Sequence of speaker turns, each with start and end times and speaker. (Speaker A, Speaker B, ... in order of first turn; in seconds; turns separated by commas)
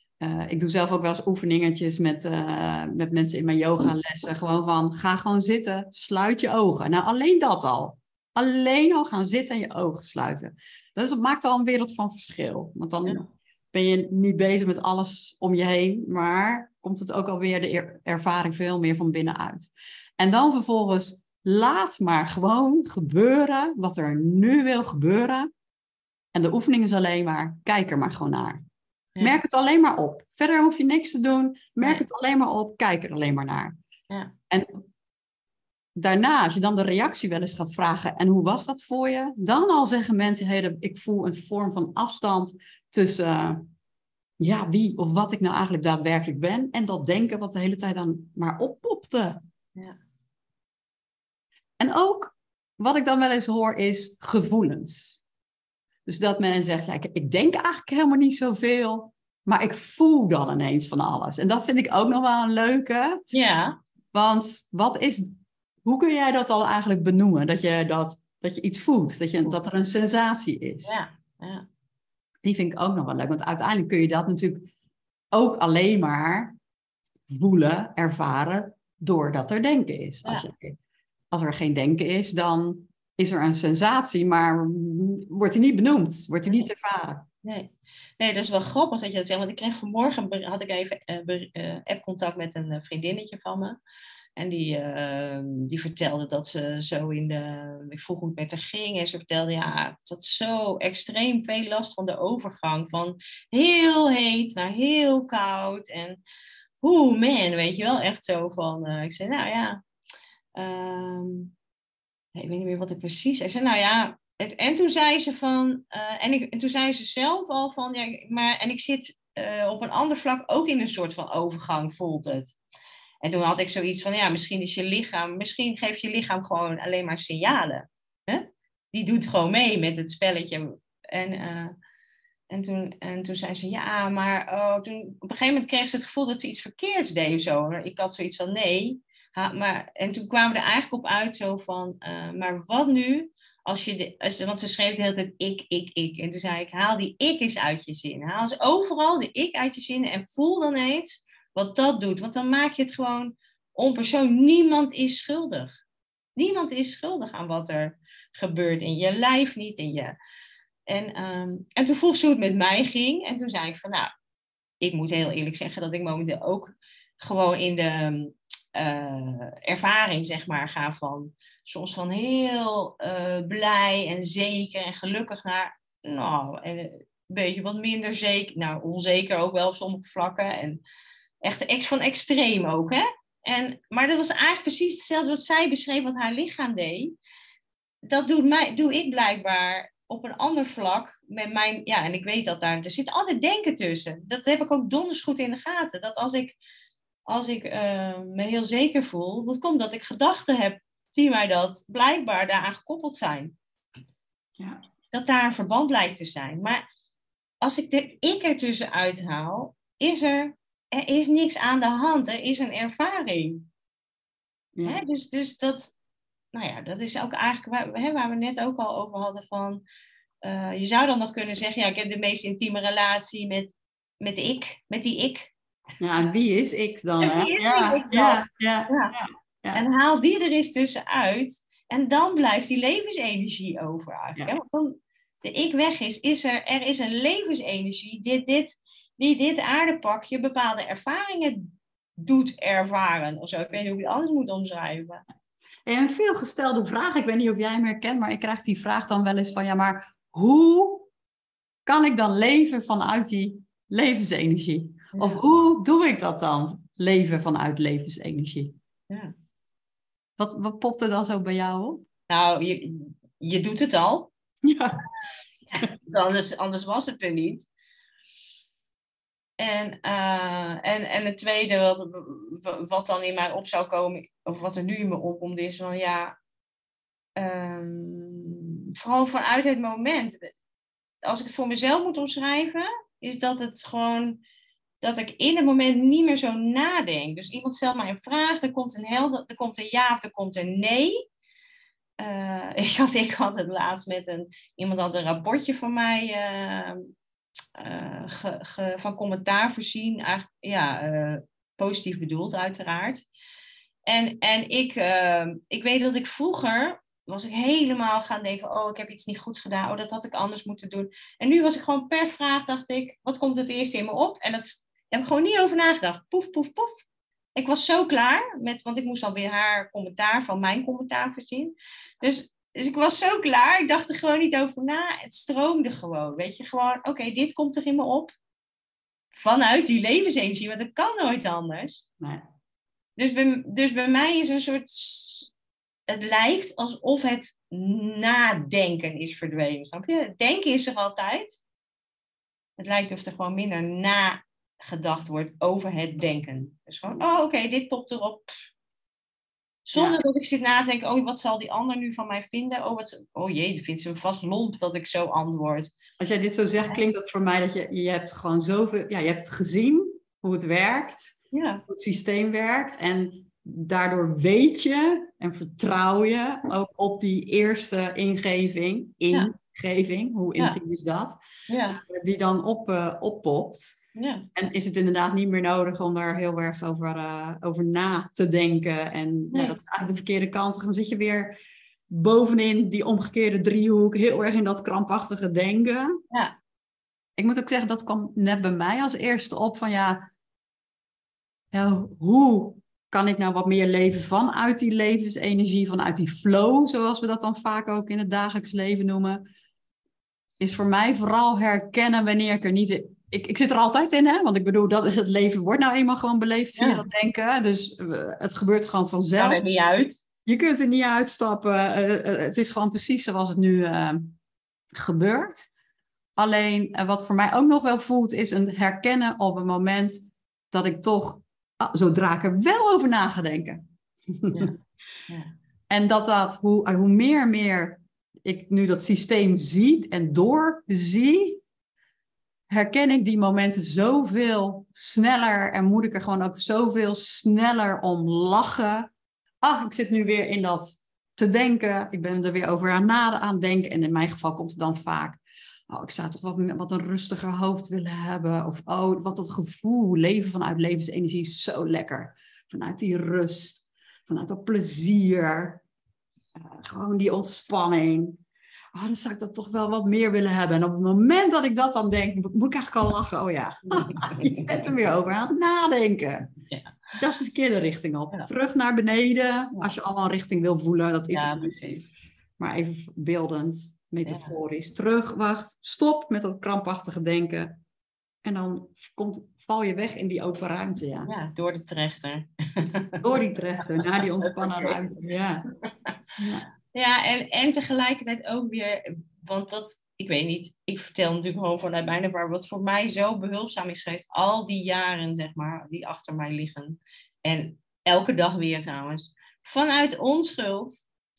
Speaker A: 0.2-25.5, Speaker A: 26.3-28.6, Speaker A: 29.2-33.8, Speaker A: 34.5-34.8, Speaker A: 36.0-43.7, Speaker A: 44.4-49.4, Speaker A: 51.8-55.2, Speaker A: 56.0-63.2, Speaker B: 63.3-63.8, Speaker A: 64.1-71.0, Speaker B: 70.8-71.6, Speaker A: 72.4-74.7, Speaker A: 75.3-76.6, Speaker A: 77.3-80.8, Speaker A: 81.3-87.2, Speaker B: 87.4-93.8, Speaker B: 94.4-106.2, Speaker B: 106.8-109.8, Speaker B: 110.6-111.5, Speaker B: 112.3-122.5, Speaker B: 123.2-131.7, Speaker B: 132.5-155.8, Speaker B: 156.3-160.1, Speaker B: 160.9-164.1, Speaker B: 164.8-180.8, Speaker B: 181.4-187.1, Speaker B: 188.1-196.6, Speaker B: 197.3-203.6, Speaker B: 205.1-206.8, Speaker B: 207.6-213.6, Speaker A: 214.8-215.0, Speaker B: 214.8-215.9, Speaker B: 216.5-219.8, Speaker B: 220.4-225.5, Speaker A: 226.0-229.8, Speaker B: 227.2-229.1, Speaker B: 229.7-245.2, Speaker A: 245.8-251.1, Speaker A: 251.8-258.8, Speaker B: 255.1-255.4, Speaker A: 260.4-262.0, Speaker B: 262.3-264.3, Speaker A: 264.6-265.0, Speaker B: 265.7-267.7, Speaker B: 269.6-276.3, Speaker B: 277.4-280.5, Speaker B: 281.2-284.4, Speaker B: 285.0-291.2, Speaker B: 292.2-297.1, Speaker B: 297.8-303.2, Speaker B: 304.1-317.0, Speaker B: 317.6-328.3, Speaker B: 329.3-332.0, Speaker A: 332.2-332.4, Speaker B: 333.2-335.5, Speaker B: 336.1-341.6, Speaker B: 342.8-348.5, Speaker B: 349.8-355.9, Speaker A: 356.2-371.4, Speaker B: 361.5-361.8, Speaker B: 371.7-372.0, Speaker A: 371.9-374.0, Speaker B: 374.1-374.5, Speaker A: 374.5-381.6, Speaker B: 379.5-379.8, Speaker A: 382.1-386.2, Speaker B: 386.3-386.6, Speaker A: 387.4-390.3, Speaker A: 391.7-399.4, Speaker A: 400.6-409.6, Speaker B: 406.8-407.0, Speaker B: 409.4-410.2, Speaker A: 410.4-414.4, Speaker A: 414.9-415.7, Speaker A: 416.4-424.7, Speaker B: 424.5-425.5, Speaker A: 425.9-431.6, Speaker A: 432.7-439.1, Speaker A: 439.6-455.8, Speaker A: 456.6-458.4, Speaker A: 458.9-466.5, Speaker B: 464.1-464.8, Speaker B: 466.7-467.0, Speaker A: 467.2-472.0, Speaker B: 471.3-472.1, Speaker A: 472.6-477.8, Speaker B: 474.2-474.5, Speaker A: 478.4-481.3, Speaker B: 481.3-483.9, Speaker A: 483.2-485.6, Speaker B: 484.4-485.0, Speaker A: 486.4-486.7, Speaker B: 486.9-501.0